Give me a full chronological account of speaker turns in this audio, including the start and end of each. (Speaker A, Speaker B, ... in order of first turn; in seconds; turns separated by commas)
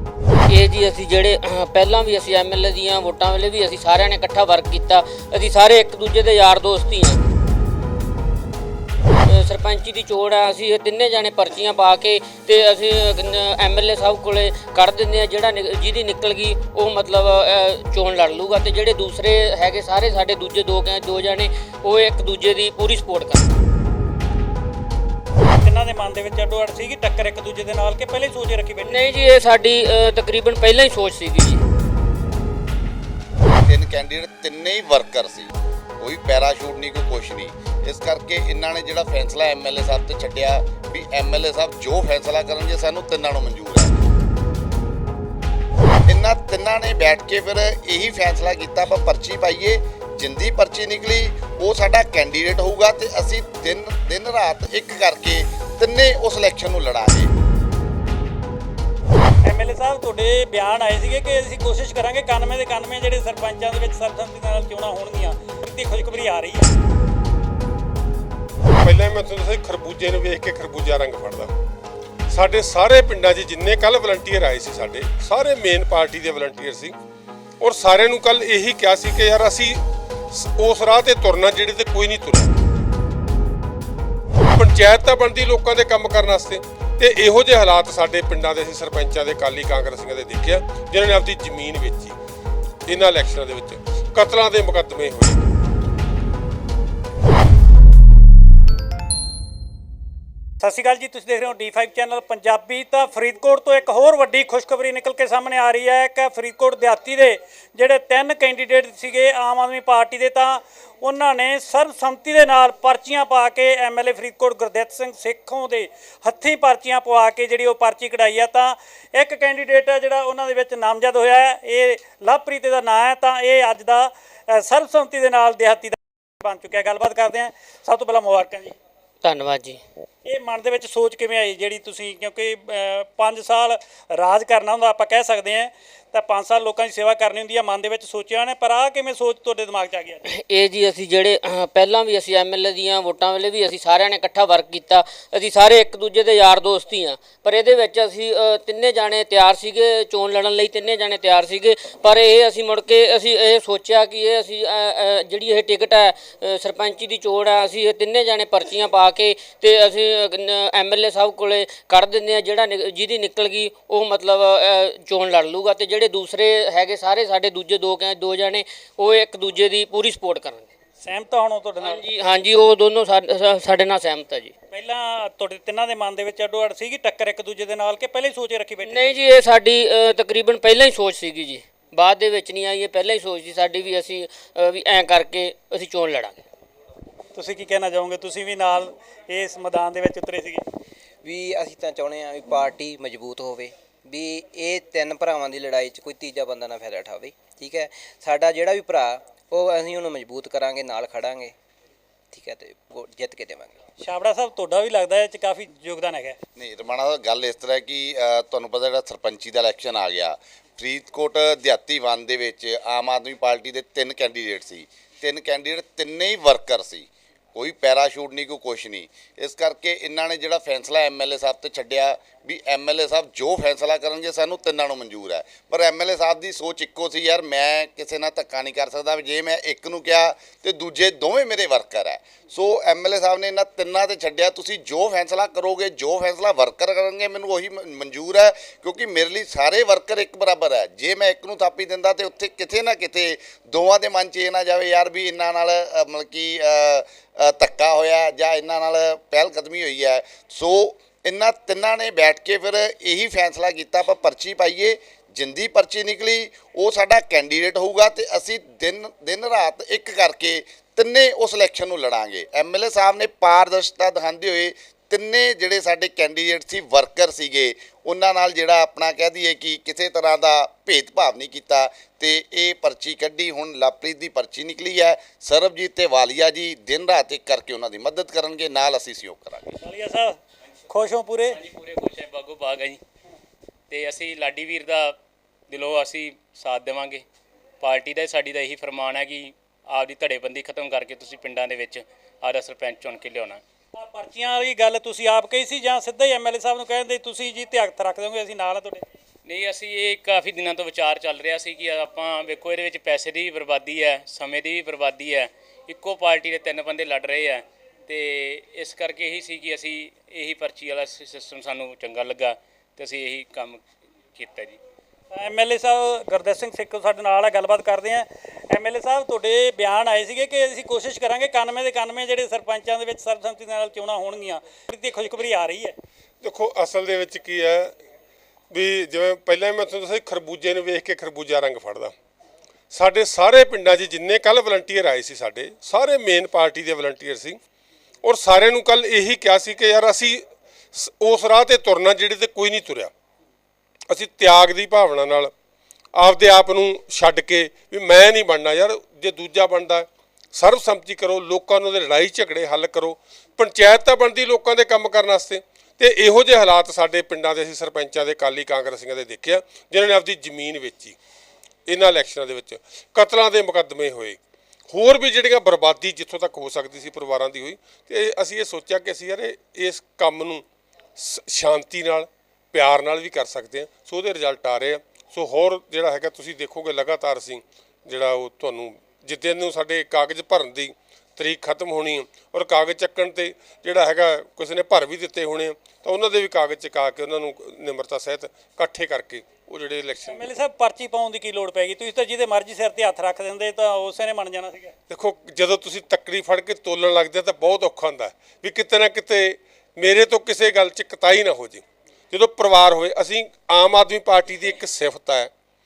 Speaker A: 0.6-7.2, Speaker A: 9.4-23.4, Speaker B: 25.6-29.2, Speaker A: 29.0-31.6, Speaker C: 33.7-43.9, Speaker C: 46.1-57.3, Speaker B: 59.5-66.7, Speaker D: 68.8-71.5, Speaker D: 72.3-77.0, Speaker D: 77.6-79.8, Speaker D: 80.3-82.5, Speaker D: 84.5-92.2, Speaker D: 92.9-95.4, Speaker B: 100.6-128.8, Speaker A: 129.3-129.7, Speaker B: 130.2-140.2, Speaker A: 140.5-170.7, Speaker B: 171.0-172.0, Speaker A: 172.3-174.5, Speaker B: 174.7-179.1, Speaker A: 178.9-186.4, Speaker B: 187.3-190.6, Speaker E: 191.2-201.5, Speaker E: 202.3-203.7, Speaker B: 204.0-206.4, Speaker C: 206.6-279.7, Speaker B: 279.8-280.4, Speaker B: 280.9-281.6, Speaker F: 281.6-283.0, Speaker F: 283.9-285.1, Speaker F: 285.7-287.2, Speaker F: 287.8-293.6, Speaker B: 294.0-299.1, Speaker F: 299.5-313.8, Speaker F: 314.4-314.8, Speaker B: 315.3-325.9, Speaker D: 326.4-327.9, Speaker D: 328.7-332.1, Speaker D: 332.9-337.6, Speaker D: 338.2-340.4, Speaker D: 340.9-343.1, Speaker D: 344.1-345.5, Speaker D: 346.1-361.2, Speaker D: 361.9-364.4, Speaker D: 364.9-370.6, Speaker D: 371.2-390.5, Speaker B: 390.3-394.9, Speaker D: 395.1-405.5